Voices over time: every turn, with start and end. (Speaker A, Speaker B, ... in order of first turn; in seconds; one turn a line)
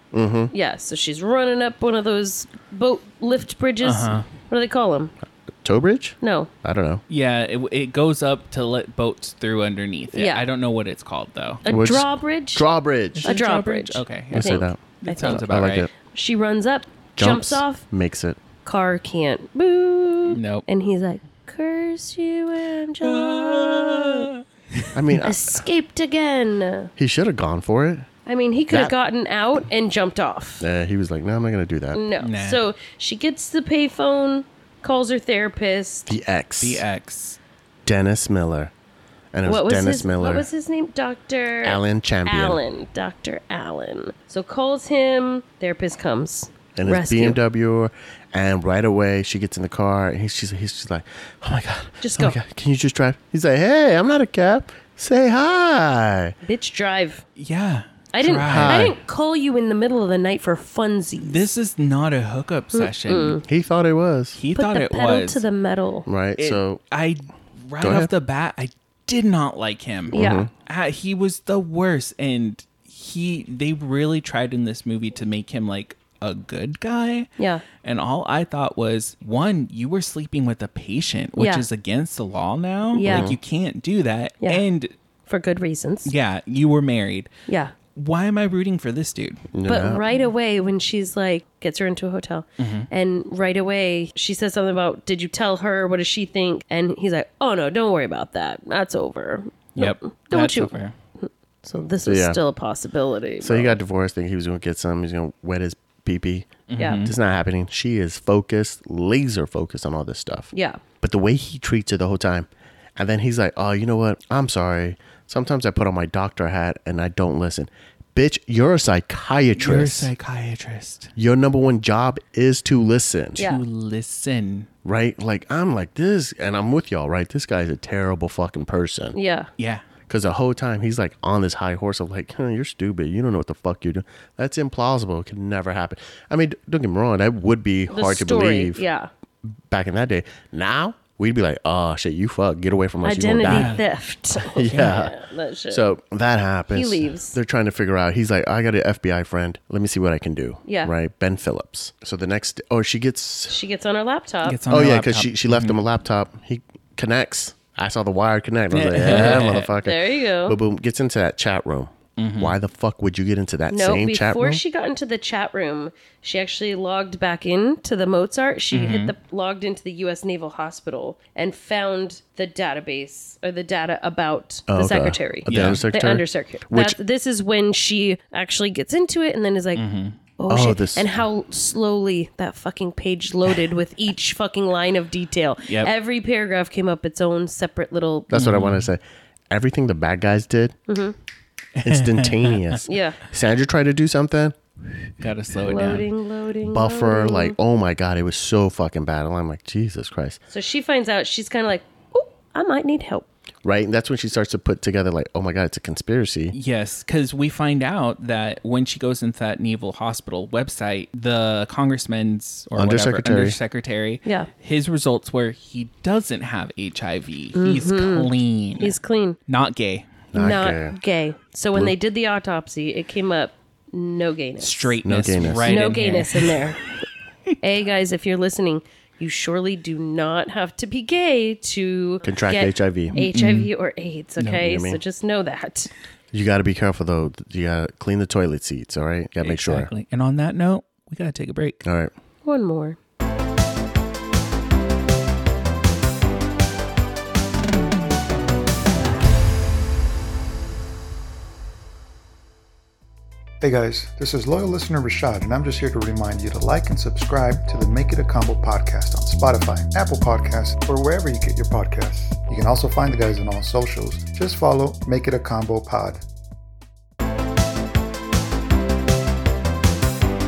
Speaker A: 0.1-0.5
Speaker B: 0.5-5.1
Speaker C: 3.8-4.3
Speaker A: 5.6-7.0
Speaker B: 6.2-6.5
Speaker C: 7.1-11.6
Speaker B: 10.1-10.4
Speaker B: 11.6-12.6
Speaker A: 11.7-13.3
Speaker C: 13.1-15.9
Speaker B: 13.2-15.4
Speaker A: 14.3-15.9
Speaker B: 16.0-17.8
Speaker A: 17.1-18.4
Speaker B: 18.6-24.3
Speaker C: 20.3-20.6
Speaker C: 23.0-25.0
Speaker A: 24.9-25.6
Speaker B: 25.2-26.9
Speaker A: 27.0-28.1
Speaker B: 28.2-30.6
Speaker A: 30.6-32.0
Speaker B: 31.9-36.1
Speaker C: 32.2-32.6
Speaker A: 36.1-36.8
Speaker C: 36.6-37.4
Speaker A: 37.8-38.7
Speaker A: 39.3-40.5
Speaker B: 39.4-47.4
Speaker A: 41.6-42.6
Speaker A: 46.7-56.4
Speaker B: 52.0-52.4
Speaker B: 56.4-57.2
Speaker C: 57.4-58.9
Speaker B: 58.1-61.5
Speaker A: 58.4-59.0
Speaker C: 61.2-63.4
Speaker B: 62.7-63.4
Speaker A: 63.5-64.4
Speaker C: 64.3-65.4
Speaker B: 64.5-66.1
Speaker A: 66.1-66.8
Speaker C: 66.4-77.3
Speaker A: 67.8-68.1
Speaker B: 70.1-70.5
Speaker A: 70.1-70.5
Speaker B: 77.4-77.6
Speaker C: 77.8-84.9
Speaker B: 81.4-81.7
Speaker B: 82.9-83.3
Speaker A: 83.0-83.4
Speaker B: 85.3-86.1
Speaker C: 86.0-87.3
Speaker B: 87.5-87.7
Speaker C: 87.9-89.5
Speaker A: 89.5-90.0
Speaker B: 89.7-103.8
Speaker C: 92.6-92.9
Speaker C: 99.8-100.9
Speaker A: 102.0-102.4
Speaker A: 103.4-110.5
Speaker C: 106.7-107.1
Speaker B: 106.8-107.0
Speaker B: 110.5-110.8
Speaker A: 111.0-120.1
Speaker C: 119.6-121.1
Speaker A: 121.2-123.4
Speaker B: 123.4-123.6
Speaker C: 123.4-124.7
Speaker A: 124.8-129.2
Speaker B: 129.1-129.5
Speaker C: 129.6-129.8
Speaker A: 130.1-138.8
Speaker B: 137.9-139.1
Speaker A: 139.7-143.8
Speaker B: 143.0-145.8
Speaker C: 143.5-143.8
Speaker A: 144.4-145.1
Speaker C: 144.7-145.0
Speaker A: 145.7-153.6
Speaker B: 146.7-147.3
Speaker B: 150.7-150.9
Speaker B: 153.5-154.6
Speaker C: 154.4-155.8
Speaker A: 154.7-164.6
Speaker C: 158.7-159.7
Speaker B: 159.1-160.6
Speaker C: 162.2-162.5
Speaker B: 163.7-179.8
Speaker C: 168.7-169.1
Speaker A: 174.7-177.0
Speaker C: 175.5-175.8
Speaker C: 179.7-180.2
Speaker B: 180.4-188.3
Speaker A: 180.5-181.1
Speaker A: 188.3-190.8
Speaker C: 188.3-188.9
Speaker B: 190.9-191.1
Speaker C: 191.8-192.8
Speaker A: 191.8-194.6
Speaker B: 192.8-193.2
Speaker C: 195.2-196.1
Speaker B: 195.6-197.6
Speaker A: 196.7-200.4
Speaker B: 200.5-203.3
Speaker A: 203.6-206.5
Speaker C: 206.5-218.9
Speaker A: 212.8-213.6
Speaker B: 217.5-219.4
Speaker C: 219.5-220.2
Speaker A: 220.3-221.0
Speaker B: 220.3-225.0
Speaker C: 224.6-226.7
Speaker A: 225.0-225.8
Speaker B: 225.6-226.9
Speaker B: 227.6-235.9
Speaker A: 232.2-233.2
Speaker C: 233.1-233.7
Speaker A: 234.4-235.0
Speaker A: 236.3-239.9
Speaker C: 239.4-241.8
Speaker A: 241.8-242.1
Speaker B: 242.4-243.0
Speaker D: 253.6-266.2